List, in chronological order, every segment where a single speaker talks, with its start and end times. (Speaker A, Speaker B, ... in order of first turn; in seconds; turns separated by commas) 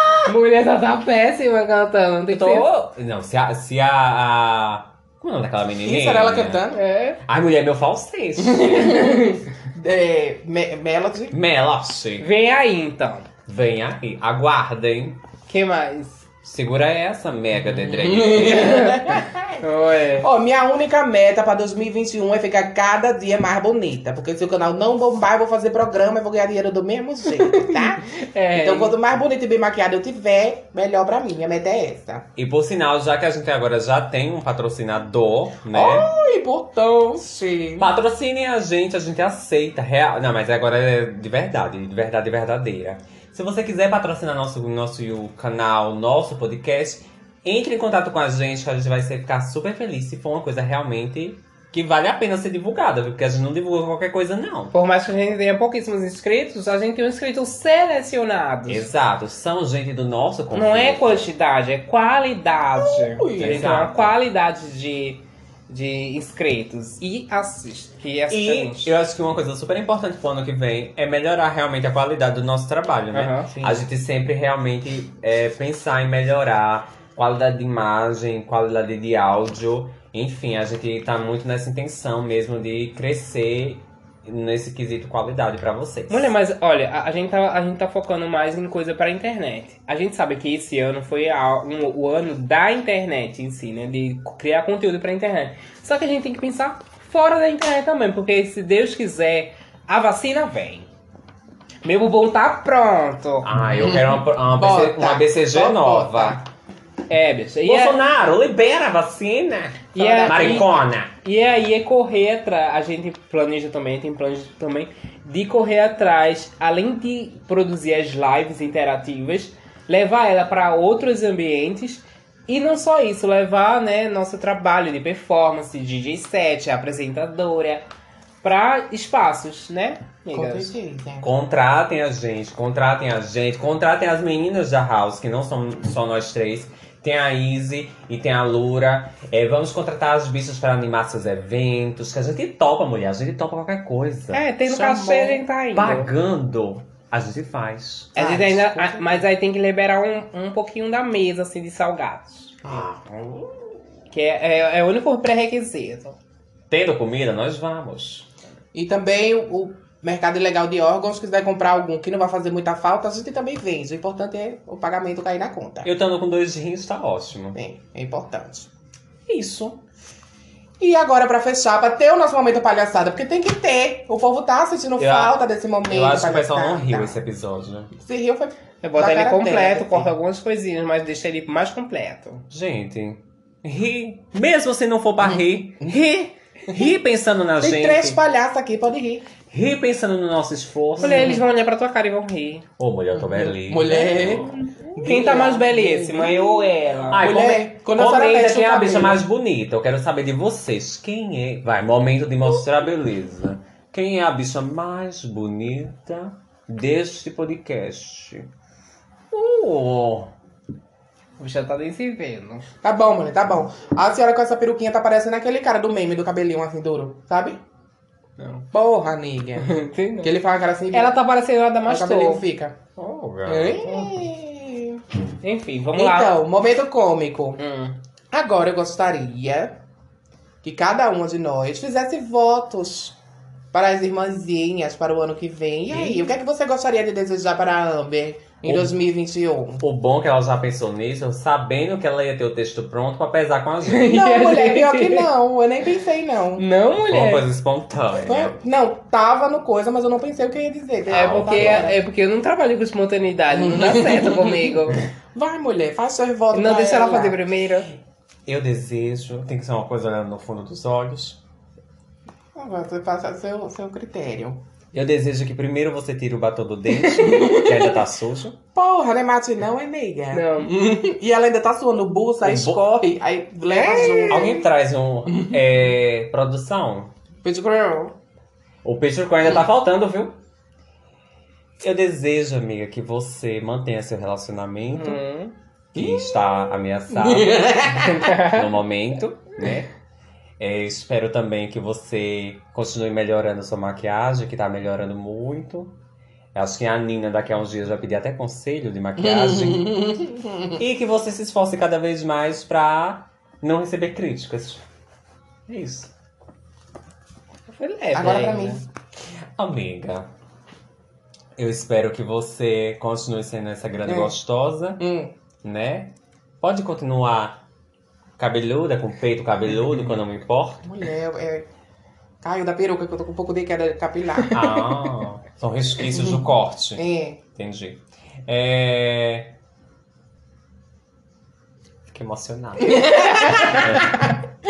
Speaker A: 0.2-2.7, Speaker B: 2.3-6.7, Speaker C: 5.8-6.8, Speaker A: 6.7-7.2, Speaker B: 7.2-9.1, Speaker C: 8.6-11.4, Speaker B: 11.3-12.3, Speaker A: 12.2-13.3, Speaker B: 13.5-15.2, Speaker A: 15.5-16.3, Speaker B: 16.4-18.8, Speaker C: 17.7-19.6, Speaker A: 18.4-20.3, Speaker C: 20.2-32.3, Speaker A: 27.6-29.0, Speaker B: 32.4-36.1, Speaker C: 35.7-37.9, Speaker B: 37.8-54.7, Speaker A: 54.7-58.9, Speaker B: 58.7-61.3, Speaker A: 60.5-68.9, Speaker C: 62.8-63.8, Speaker B: 63.4-64.1, Speaker B: 68.3-86.3, Speaker A: 73.1-73.5, Speaker C: 73.5-73.8, Speaker A: 86.1-100.9, Speaker A: 101.8-103.5, Speaker B: 103.4-106.4, Speaker C: 103.8-106.4, Speaker A: 107.1-108.0, Speaker B: 107.7-111.1, Speaker A: 110.0-127.9, Speaker C: 110.0-110.6, Speaker A: 128.4-130.7, Speaker C: 130.3-131.3, Speaker B: 131.2-144.5, Speaker A: 144.3-146.1, Speaker C: 144.7-145.4, Speaker B: 145.7-149.1, Speaker A: 148.2-152.6, Speaker C: 148.2-148.8, Speaker B: 152.6-153.8, Speaker A: 154.1-156.2, Speaker B: 156.7-158.3, Speaker C: 158.7-165.9, Speaker B: 165.8-167.6, Speaker C: 167.5-168.7, Speaker B: 169.3-169.8, Speaker C: 170.8-177.2, Speaker B: 175.0-177.9, Speaker C: 178.0-180.1, Speaker A: 178.8-182.5, Speaker B: 182.5-188.2, Speaker C: 187.6-189.3, Speaker B: 189.5-191.4, Speaker A: 191.0-192.7, Speaker C: 191.1-191.4, Speaker B: 192.8-194.6, Speaker C: 193.1-196.6, Speaker A: 195.0-197.3, Speaker B: 197.1-208.5, Speaker C: 197.2-199.2, Speaker B: 209.3-210.3, Speaker A: 211.4-212.7, Speaker C: 212.8-217.6, Speaker A: 218.4-218.7, Speaker C: 218.7-221.2, Speaker A: 219.6-220.3, Speaker A: 220.9-222.4, Speaker C: 221.9-222.8, Speaker B: 223.0-224.3, Speaker C: 223.5-225.0, Speaker A: 225.4-226.3, Speaker C: 225.9-227.6, Speaker A: 227.6-228.0, Speaker C: 228.3-229.8, Speaker C: 230.6-233.2, Speaker C: 233.7-239.8, Speaker B: 238.7-238.9, Speaker B: 239.8-244.1, Speaker A: 243.9-245.3, Speaker C: 243.9-246.7, Speaker A: 246.6-247.4, Speaker B: 247.0-248.6, Speaker C: 248.2-252.0, Speaker B: 251.1-251.9, Speaker A: 251.1-255.0, Speaker C: 253.7-254.6, Speaker C: 255.3-257.4, Speaker A: 256.5-257.9, Speaker B: 258.5-261.4, Speaker C: 262.6-264.6, Speaker B: 264.9-268.6, Speaker A: 267.0-267.7, Speaker C: 268.8-274.6, Speaker A: 270.3-270.8, Speaker B: 272.4-273.1, Speaker A: 273.7-274.6, Speaker B: 274.3-277.1, Speaker C: 277.4-278.1, Speaker B: 278.8-280.4, Speaker B: 281.8-285.2, Speaker A: 284.9-285.5, Speaker B: 285.9-289.9, Speaker C: 286.0-288.3, Speaker A: 288.0-288.7, Speaker B: 290.6-296.0, Speaker B: 296.5-300.2, Speaker C: 299.3-300.7, Speaker B: 300.7-304.8, Speaker B: 305.7-306.1, Speaker A: 307.7-308.8, Speaker C: 308.1-308.9, Speaker B: 309.6-310.3, Speaker B: 311.6-315.0, Speaker C: 314.1-314.3, Speaker C: 315.0-315.3, Speaker B: 315.6-317.6, Speaker B: 318.4-320.9, Speaker C: 320.8-321.7, Speaker C: 322.4-324.6, Speaker B: 324.5-329.5, Speaker C: 327.0-327.4, Speaker B: 332.1-334.2, Speaker C: 333.0-334.1